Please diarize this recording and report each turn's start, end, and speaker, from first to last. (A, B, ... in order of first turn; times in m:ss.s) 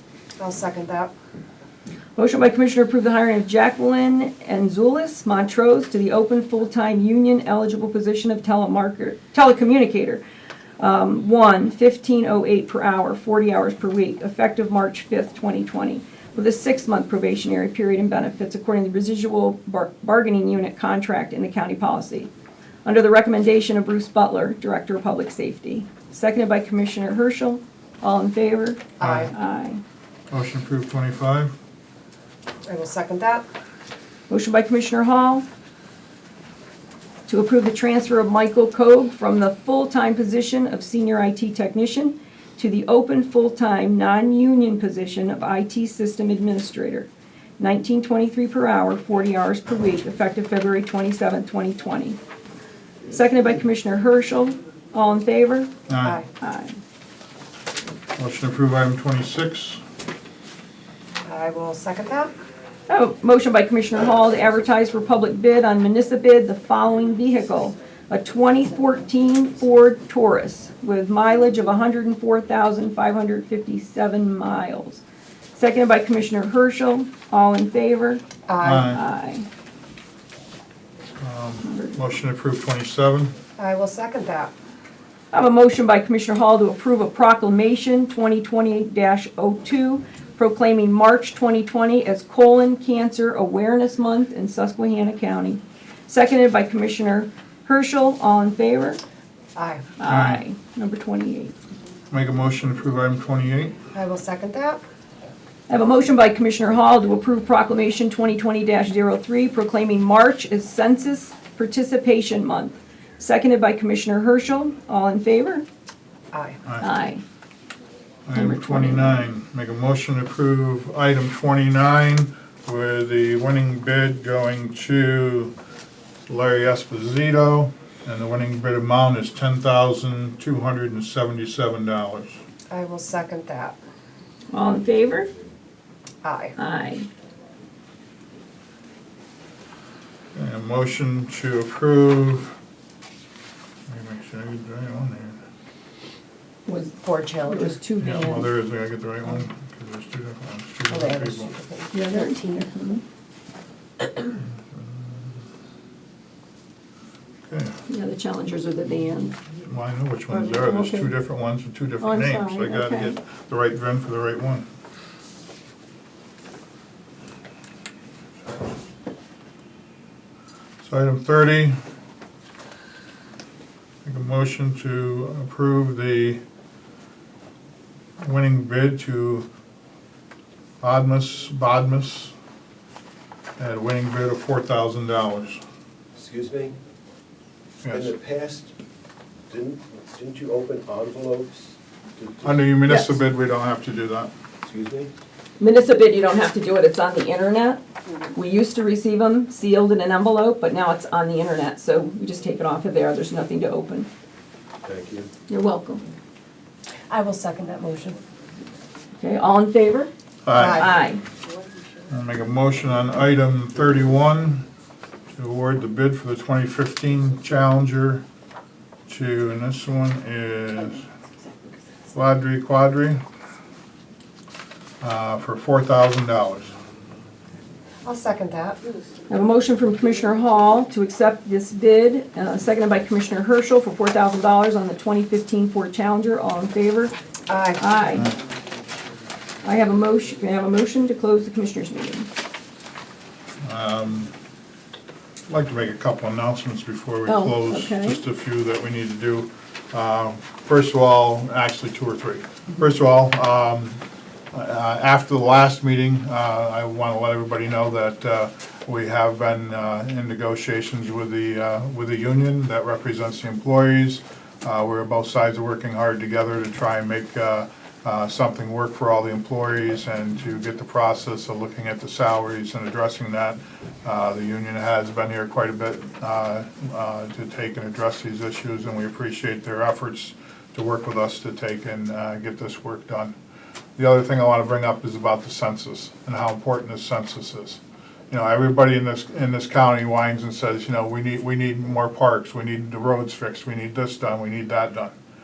0:00.4-0:01.1 A
0:02.2-0:10.2 B
0:10.8-0:22.3 B
0:22.8-0:29.8 B
0:29.0-0:29.3 C
0:29.0-0:29.3 A
0:30.3-0:31.5 C
0:32.7-0:33.4 A
0:34.3-0:35.4 B
0:37.3-0:52.2 B
0:53.1-0:55.7 B
0:55.9-0:56.2 C
0:56.4-0:56.8 B
0:58.2-0:59.8 C
1:01.2-1:02.3 A
1:02.9-1:15.0 B
1:15.6-1:18.2 B
1:18.5-1:18.9 A
1:18.6-1:19.0 C
1:18.8-1:19.4 B
1:21.2-1:23.3 C
1:21.6-1:22.0 B
1:23.6-1:24.5 A
1:25.3-1:39.0 B
1:39.6-1:39.8 A
1:40.0-1:41.5 B
1:40.0-1:40.4 C
1:42.1-1:43.8 C
1:43.9-1:44.8 A
1:45.7-1:55.7 B
1:56.3-1:56.6 A
1:56.8-1:57.2 B
1:58.3-2:05.5 C
1:58.3-1:59.2 B
2:06.3-2:12.4 C
2:12.7-2:13.8 A
2:14.5-2:15.3 B
2:16.2-2:16.5 A
2:16.6-2:17.1 B
2:20.3-2:22.5 C
2:23.9-2:25.4 C
2:26.7-2:26.9 B
2:27.0-2:27.8 A
2:27.5-2:28.5 B
2:28.0-2:31.5 C
2:30.9-2:32.7 A
2:31.9-2:33.0 B
2:34.7-2:35.2 C
2:37.4-2:37.8 C
2:37.9-2:39.4 B
2:39.6-2:44.6 C
2:40.3-2:41.1 B
2:42.0-2:43.2 B
2:50.8-2:51.8 C
2:54.0-2:56.4 C
2:58.2-2:59.5 C
3:00.8-3:02.3 C
3:03.6-3:05.6 C
3:06.2-3:06.8 D
3:07.8-3:08.1 C
3:07.9-3:08.7 D
3:09.5-3:12.6 D
3:12.4-3:14.3 C
3:12.9-3:13.2 B
3:14.6-3:15.1 D
3:15.6-3:17.8 B
3:18.3-3:24.1 B
3:24.8-3:25.3 D
3:25.5-3:26.0 B
3:27.1-3:28.2 A
3:29.2-3:30.1 B
3:30.4-3:30.9 C
3:30.5-3:30.9 A
3:30.7-3:31.2 B
3:32.1-3:34.6 C
3:35.3-3:38.2 C
3:39.1-3:41.0 C
3:42.1-3:43.2 C
3:45.0-3:46.7 C
3:48.0-3:48.8 A
3:49.3-3:57.1 B
3:57.5-3:57.8 A
3:57.8-3:58.3 B
3:59.6-4:02.3 B
4:03.6-4:04.3 C
4:05.5-4:14.0 C
4:07.2-4:08.2 B
4:14.5-4:43.3 C
4:44.0-4:55.1 C